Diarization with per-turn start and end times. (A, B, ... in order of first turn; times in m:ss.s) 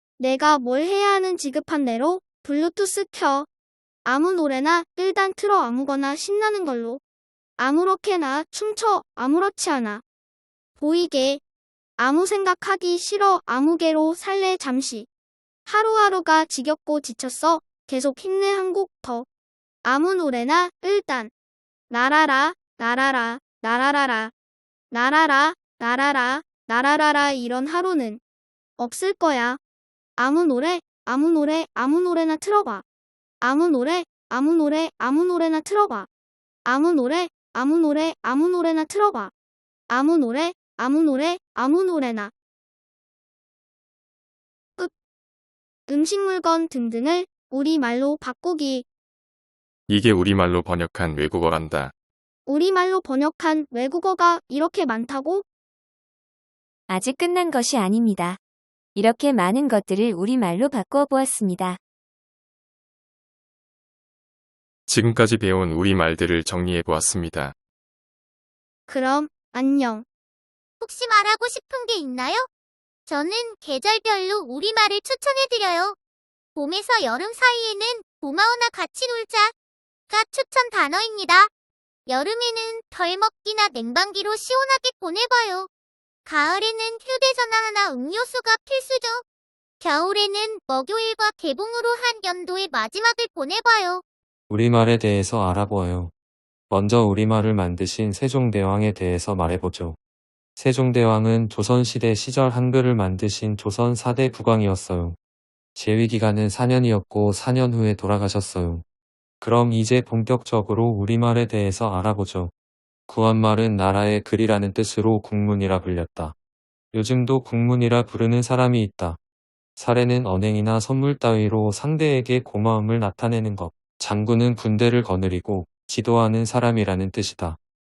0:00.2-0:03.5 A
0:04.0-0:07.0 A
0:07.6-0:10.0 A
0:10.8-0:11.4 A
0:12.0-0:15.1 A
0:15.6-0:19.3 A
0:19.8-0:21.3 A
0:21.9-0:24.3 A
0:24.9-0:28.2 A
0:28.8-0:29.6 A
0:30.2-0:32.8 A
0:33.4-0:36.1 A
0:36.6-0:39.3 A
0:39.9-0:42.3 A
0:45.9-0:48.9 A
0:49.9-0:51.9 B
0:52.5-0:55.4 A
0:56.9-0:58.4 C
0:58.9-1:01.8 C
1:04.9-1:07.5 B
1:08.9-1:10.0 A
1:10.8-1:12.5 D
1:13.1-1:16.0 D
1:16.6-1:19.5 D
1:20.1-1:21.5 D
1:22.1-1:25.7 D
1:26.2-1:29.2 D
1:29.8-1:34.0 D
1:34.5-1:36.1 E
1:36.7-1:40.0 E
1:40.6-1:45.2 E
1:45.8-1:48.8 E
1:49.4-1:52.5 E
1:53.1-1:56.3 E
1:56.9-1:59.2 E
1:59.8-2:07.6 E